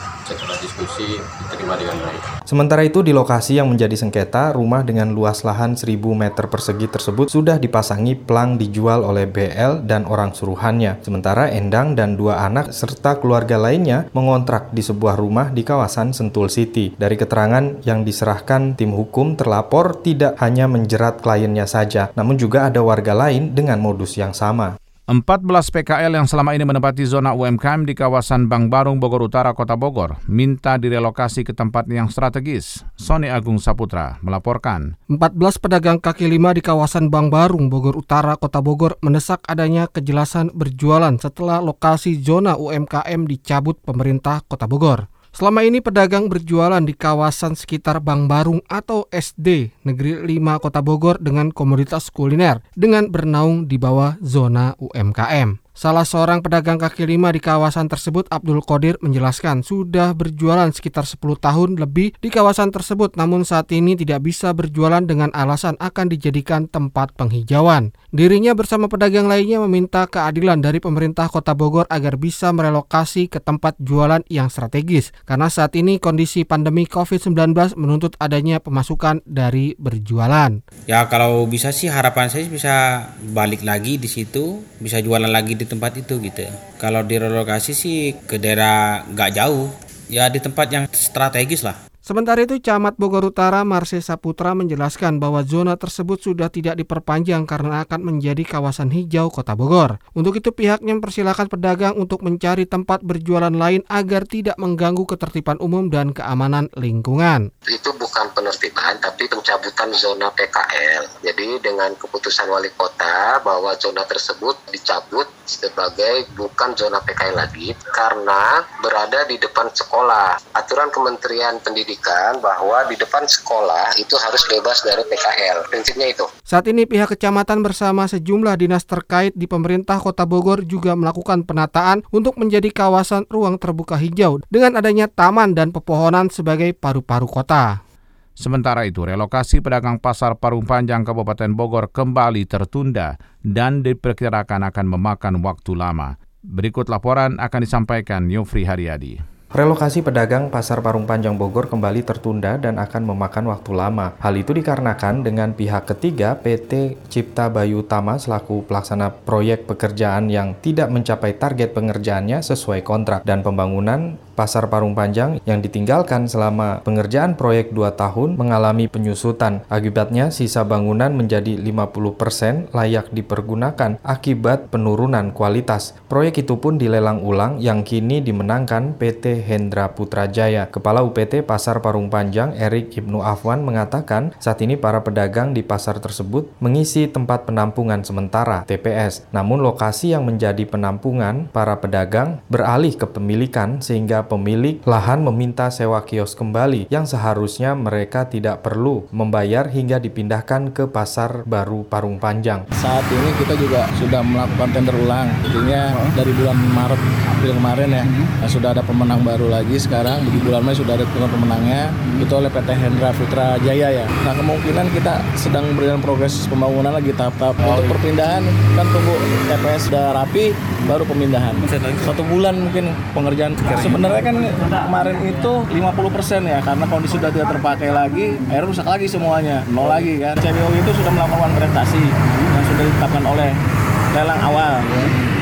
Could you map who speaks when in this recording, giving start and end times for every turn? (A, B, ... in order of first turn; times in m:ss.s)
0:00.2-0:02.2 A
0:02.5-0:24.7 B
0:25.1-0:34.9 C
0:35.1-1:20.5 D
1:20.9-1:31.8 E
1:32.0-1:47.4 D
1:47.7-2:06.3 F
2:06.5-2:17.8 D
2:18.4-2:29.2 C
2:29.5-3:22.6 B
3:22.8-3:53.5 G
3:54.1-3:55.2 G